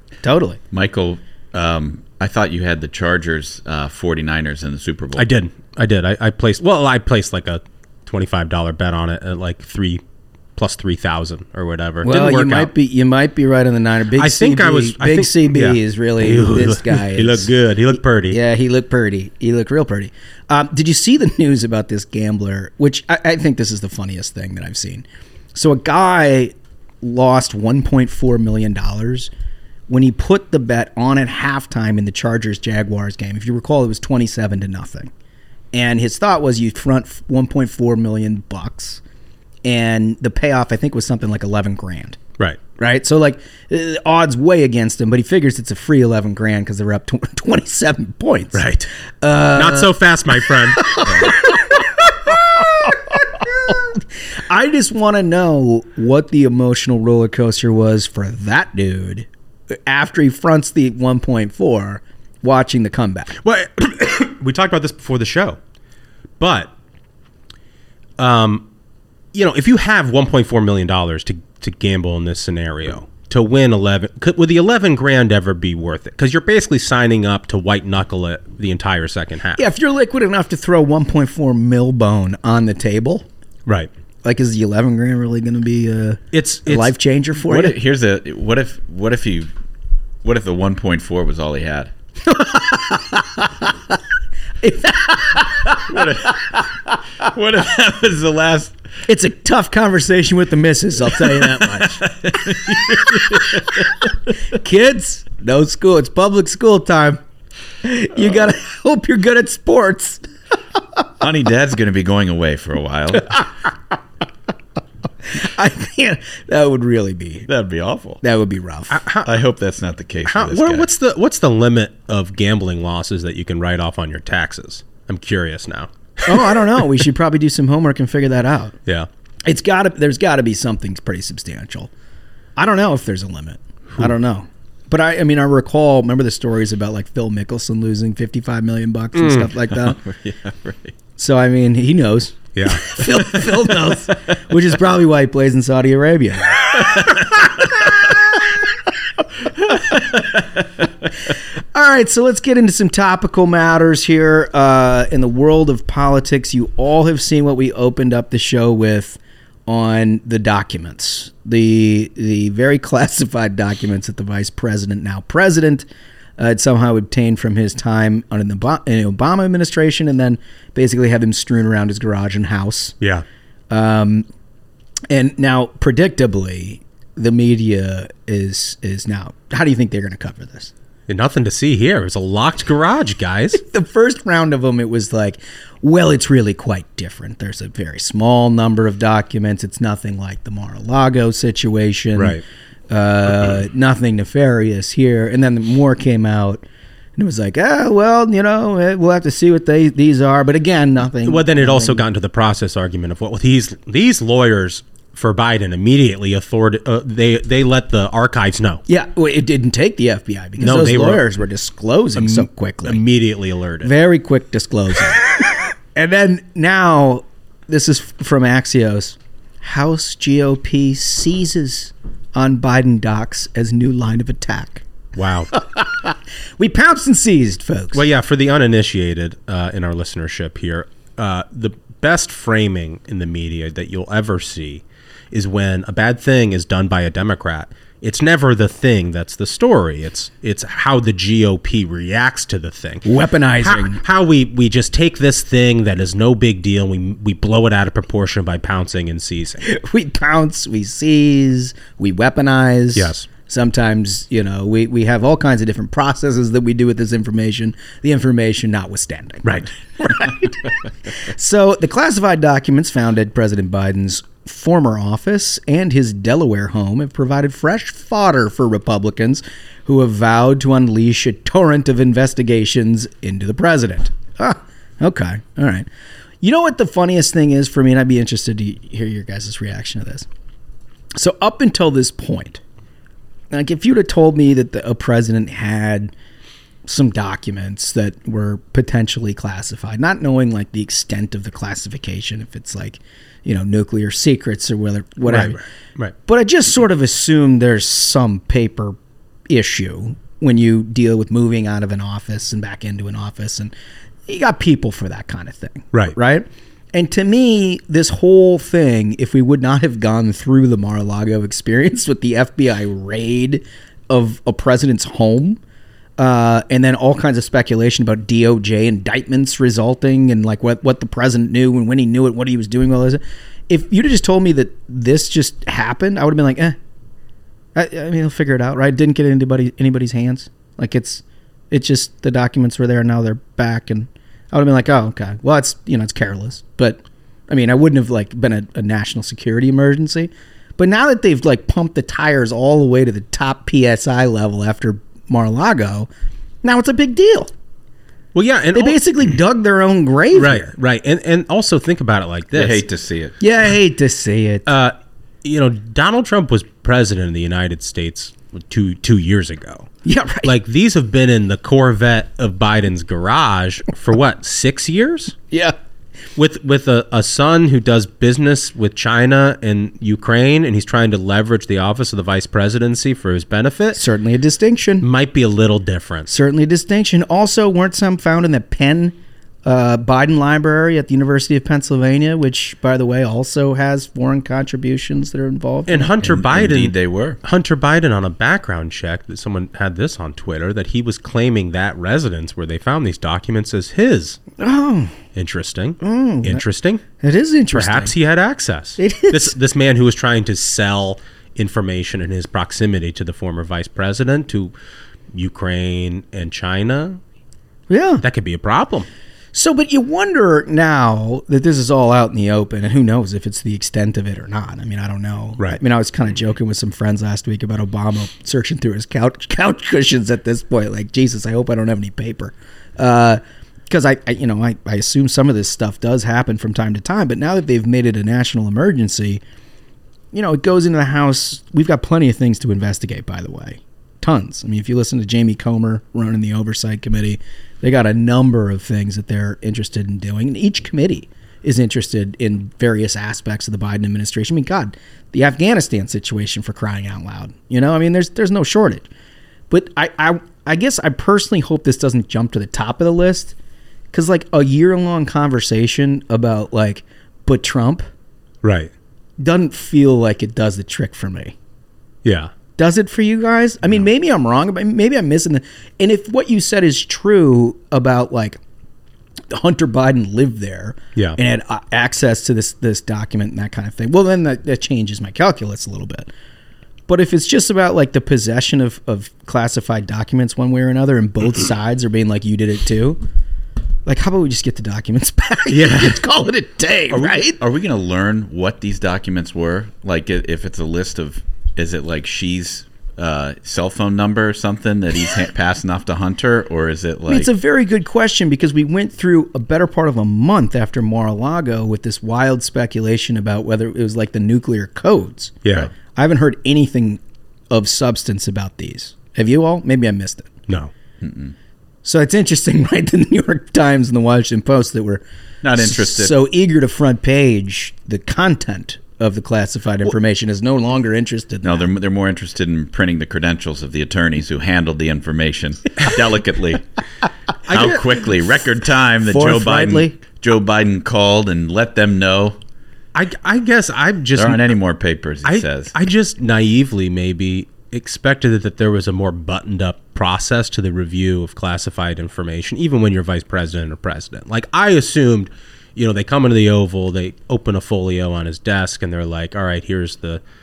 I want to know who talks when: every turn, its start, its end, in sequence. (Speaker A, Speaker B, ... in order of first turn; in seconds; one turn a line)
Speaker A: 0.2-0.6
Speaker B: 0.7-5.3
Speaker C: 5.2-10.0
Speaker C: 10.6-12.7
Speaker A: 12.0-29.3
Speaker C: 14.2-18.4
Speaker A: 29.9-35.1
Speaker A: 35.7-39.0
Speaker A: 39.6-42.2
Speaker A: 42.8-48.7
Speaker C: 48.5-48.9
Speaker A: 49.2-50.0
Speaker C: 49.5-51.3
Speaker A: 50.7-59.3
Speaker A: 59.9-63.4
Speaker C: 63.4-65.6
Speaker C: 66.4-66.7
Speaker C: 68.2-68.7
Speaker C: 69.3-79.6
Speaker A: 79.6-83.3
Speaker A: 84.2-87.8
Speaker C: 86.3-86.9
Speaker B: 87.4-89.5
Speaker B: 90.2-91.9
Speaker A: 92.4-93.0
Speaker A: 94.6-96.0
Speaker B: 95.9-96.6
Speaker B: 97.2-98.8
Speaker A: 99.1-102.5
Speaker B: 101.8-103.8
Speaker A: 104.5-107.2
Speaker A: 107.8-110.3
Speaker B: 111.2-113.4
Speaker A: 115.3-117.5
Speaker B: 117.5-118.2
Speaker A: 118.2-119.0
Speaker C: 118.9-119.3
Speaker B: 119.2-120.9
Speaker C: 120.3-126.9
Speaker A: 126.2-128.7
Speaker A: 129.4-131.9
Speaker A: 132.6-140.0
Speaker C: 139.2-139.5
Speaker B: 140.0-140.9
Speaker A: 141.2-147.1
Speaker C: 142.6-143.0
Speaker A: 151.7-165.9
Speaker A: 166.4-172.9
Speaker A: 173.7-174.3
Speaker A: 175.1-180.7
Speaker C: 181.1-183.6
Speaker A: 183.5-196.6
Speaker C: 192.2-192.4
Speaker A: 197.2-202.0
Speaker C: 201.2-208.8
Speaker A: 208.9-213.0
Speaker C: 210.6-211.3
Speaker C: 212.2-213.9
Speaker A: 213.8-215.2
Speaker A: 215.9-224.8
Speaker C: 225.2-225.5
Speaker A: 225.5-228.1
Speaker C: 227.9-243.1
Speaker A: 243.1-244.0
Speaker C: 243.6-249.6
Speaker A: 249.6-275.9
Speaker C: 253.0-253.3
Speaker A: 276.4-280.3
Speaker A: 281.1-282.6
Speaker A: 283.5-286.1
Speaker A: 286.9-295.6
Speaker C: 295.2-296.1
Speaker A: 296.3-299.0
Speaker A: 299.5-303.7
Speaker A: 304.3-315.6
Speaker A: 316.2-326.8
Speaker A: 327.8-346.1
Speaker A: 346.6-347.5
Speaker C: 348.4-349.0
Speaker A: 348.7-350.7
Speaker C: 350.3-352.9
Speaker B: 352.5-353.4
Speaker A: 353.4-354.7
Speaker C: 354.7-359.9
Speaker A: 360.1-360.5
Speaker C: 360.4-365.4
Speaker C: 366.4-374.0
Speaker A: 373.9-375.1
Speaker C: 375.0-376.3
Speaker A: 376.3-386.1
Speaker C: 385.9-394.4
Speaker B: 386.2-387.4
Speaker A: 394.6-395.1
Speaker C: 395.4-397.0
Speaker A: 396.0-396.6
Speaker A: 397.2-398.1
Speaker C: 397.7-404.7
Speaker A: 399.0-399.5
Speaker C: 405.3-407.2
Speaker A: 407.9-408.2
Speaker C: 408.2-409.1
Speaker A: 409.5-429.4
Speaker A: 430.3-449.1
Speaker A: 449.7-453.5
Speaker A: 454.1-458.1
Speaker C: 458.6-458.9
Speaker A: 459.4-461.6
Speaker C: 462.2-462.5
Speaker A: 462.8-468.6
Speaker A: 469.5-476.3
Speaker A: 477.1-483.2
Speaker A: 484.1-487.6
Speaker C: 485.7-486.2
Speaker B: 487.1-497.5
Speaker A: 497.3-505.6
Speaker A: 506.1-507.2
Speaker A: 507.7-510.5
Speaker B: 511.2-511.6
Speaker A: 512.0-515.2
Speaker B: 515.6-516.4
Speaker A: 515.8-521.9
Speaker B: 521.6-526.9
Speaker C: 527.7-528.0
Speaker B: 527.7-532.6
Speaker A: 529.3-530.2
Speaker C: 533.1-534.7
Speaker B: 534.4-535.9
Speaker C: 535.5-550.4